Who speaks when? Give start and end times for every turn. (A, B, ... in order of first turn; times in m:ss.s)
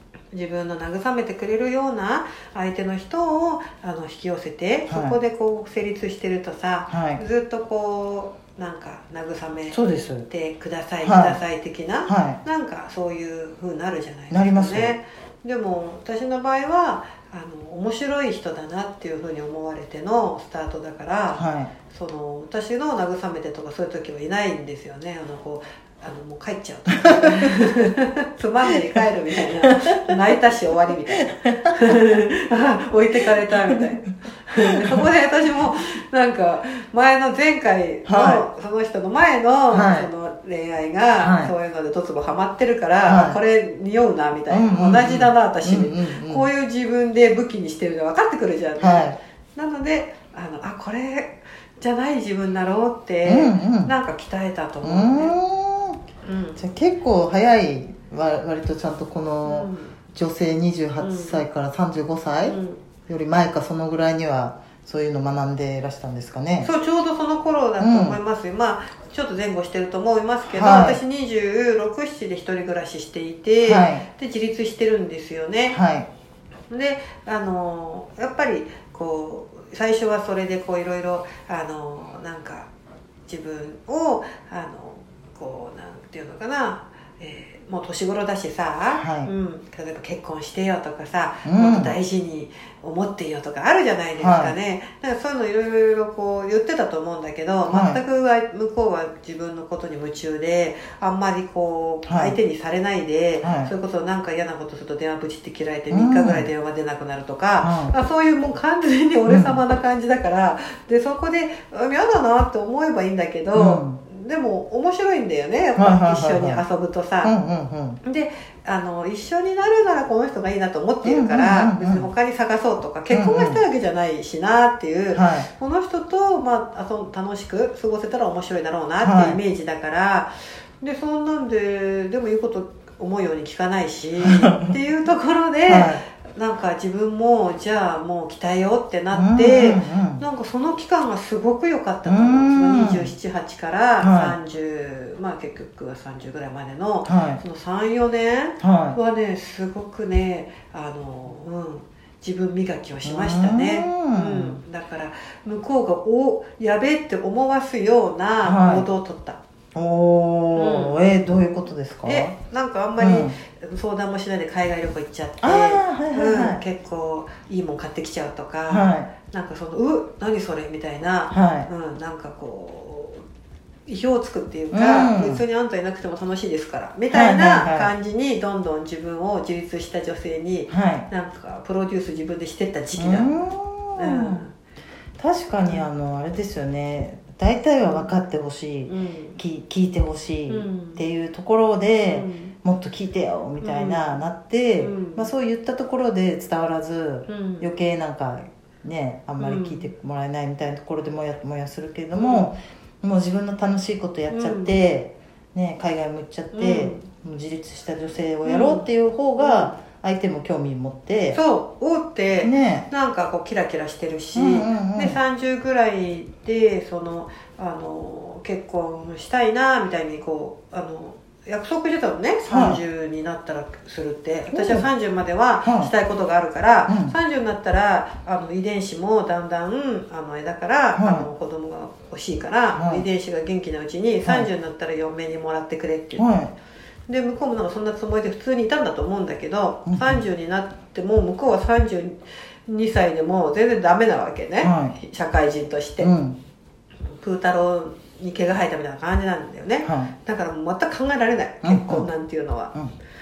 0:00.3-0:55.3 A
0:04.9-0:05.2 B
0:06.9-0:07.2 B
0:09.7-0:10.3 B
0:11.0-0:11.4 B
0:12.1-0:12.4 B
0:14.3-0:14.9 B
0:21.4-0:21.7 B
0:26.9-0:27.9 B
0:29.6-0:30.3 B
0:31.2-0:32.0 B
0:34.6-0:35.0 B
0:38.1-0:38.4 B
0:39.7-0:40.1 B
0:41.2-0:41.5 B
0:43.0-0:43.4 B
0:44.5-0:46.5 B
0:48.8-0:49.2 B
0:53.2-0:53.9 B
0:54.8-0:56.0 B
0:56.2-0:56.6 A
0:56.6-1:02.6 B
0:59.4-1:00.0 A
1:01.0-1:01.4 A
1:02.4-1:02.8 A
1:03.1-1:06.7 B
1:06.6-1:15.8 A
1:07.8-1:08.2 B
1:10.5-1:11.0 B
1:13.6-1:14.0 B
1:15.7-1:16.1 B
1:16.7-1:22.7 A
1:23.3-1:57.3 A
1:29.0-1:29.3 B
1:31.4-1:32.0 B
1:34.2-1:34.6 B
1:37.7-1:38.0 B
1:42.1-1:42.4 B
1:43.4-1:43.7 B
1:45.9-1:46.5 B
1:47.6-1:47.9 B
1:49.3-1:49.6 B
1:53.6-1:54.0 B
1:55.8-1:56.6 B
1:57.2-1:58.0 B
1:58.0-2:39.4 A
2:01.0-2:02.1 B
2:03.1-2:03.6 B
2:05.1-2:05.5 B
2:09.0-2:09.4 B
2:14.2-2:14.7 B
2:15.7-2:16.0 B
2:19.1-2:20.2 B
2:22.1-2:23.1 B
2:24.0-2:24.4 B
2:27.1-2:27.4 B
2:28.6-2:29.0 B
2:33.0-2:34.6 B
2:38.4-2:38.9 B
2:39.7-2:42.3 B
2:40.6-2:41.3 A
2:42.0-2:53.2 A
2:43.0-2:43.4 B
2:45.4-2:46.6 B
2:48.7-2:49.1 B
2:51.3-2:51.7 B
2:53.9-3:03.3 A
2:54.7-2:55.4 B
2:57.1-2:57.9 B
3:00.7-3:01.1 B
3:03.0-3:04.4 B
3:04.0-3:04.5 A
3:05.2-3:31.4 B
3:08.9-3:09.4 A
3:10.5-3:11.0 A
3:12.0-3:12.6 A
3:13.6-3:14.0 A
3:14.8-3:15.3 A
3:17.3-3:17.7 A
3:19.4-3:19.9 A
3:22.2-3:22.5 A
3:24.3-3:24.8 A
3:26.5-3:27.1 A
3:28.4-3:28.9 A
3:29.4-3:29.8 A
3:31.3-3:56.3 A
3:32.4-3:32.9 B
3:34.4-3:35.2 B
3:42.5-3:42.8 B
3:44.5-3:44.9 B
3:45.6-3:45.9 B
3:46.9-3:47.2 B
3:51.0-3:51.3 B
3:52.8-3:53.0 B
3:56.2-3:56.5 B
3:57.1-4:06.1 A
3:59.9-4:00.2 B
4:04.6-4:05.0 B
4:06.0-4:06.4 B
4:07.2-4:12.8 A
4:09.8-4:10.1 B
4:11.6-4:12.1 B